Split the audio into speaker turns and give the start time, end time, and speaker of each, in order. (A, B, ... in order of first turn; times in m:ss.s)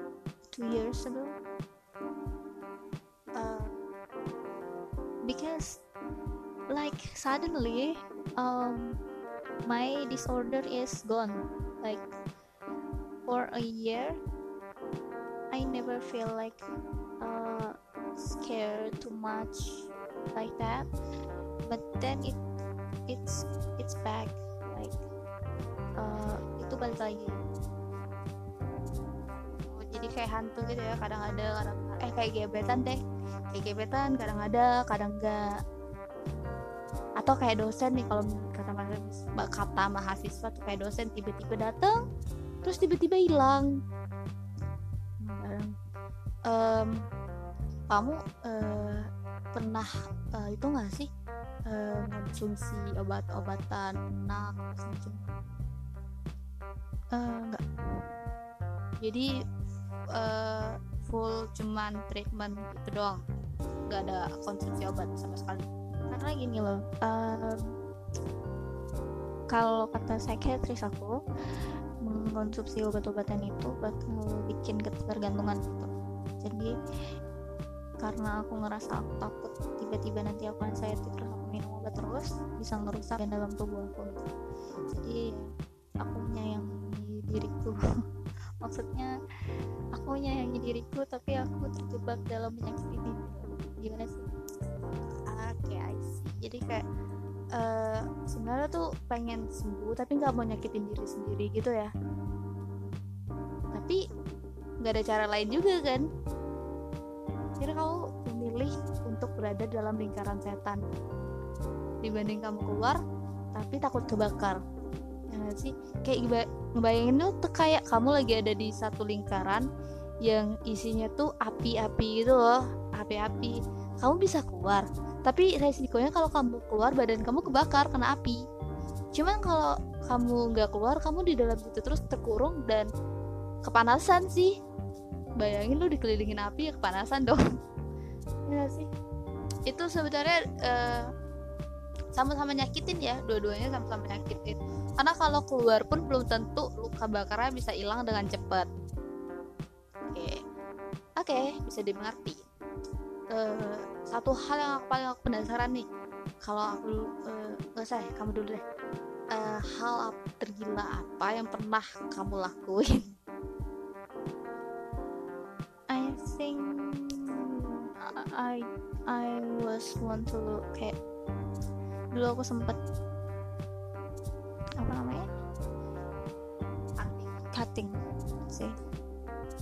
0:00.5-0:01.4 A
0:03.4-0:03.8 B
0:05.2-0:05.8 A
0:06.7-0:09.0 A
0:09.6-0:12.1 A
0:13.2-0:14.2 A
0:15.5-0:16.6 A
0:17.2-0:20.9 A
0:21.7-0:22.4 A
0:23.1-0:25.0 A
0:26.0-0:27.4 A
0:29.7-0:35.5 B
0:37.2-0:42.0 B
0:42.6-0:43.7 B
0:45.2-0:45.7 B
0:46.5-0:47.0 B
0:47.9-0:51.1 B
0:51.7-0:55.3 B
0:57.1-0:57.6 A
0:59.0-0:59.3 B
1:00.1-1:03.2 B
1:03.9-1:05.6 B
1:06.1-1:07.7 A
1:09.5-1:11.2 A
1:12.0-1:15.9 A
1:16.4-1:16.7 A
1:18.0-1:24.3 A
1:24.9-1:25.5 A
1:26.0-1:27.8 A
1:28.6-1:29.1 A
1:29.9-1:34.3 A
1:35.1-1:36.8 B
1:37.5-1:41.9 B
1:43.7-1:44.0 B
1:44.8-1:46.0 B
1:47.6-1:50.8 B
1:52.0-1:53.0 B
1:53.5-1:54.6 B
1:55.3-1:59.6 B
2:00.2-2:08.4 B
2:09.1-2:12.9 B
2:13.6-2:14.5 B
2:15.4-2:17.4 B
2:18.5-2:18.9 B
2:19.7-2:21.1 B
2:22.1-2:28.7 B
2:30.1-2:30.4 B
2:31.2-2:32.4 B
2:33.3-2:35.8 B
2:36.4-2:38.6 B
2:39.3-2:43.0 B
2:45.9-2:50.9 A
2:52.1-2:52.8 A
2:54.8-2:55.2 A
2:57.0-2:57.9 A
2:58.5-2:58.8 A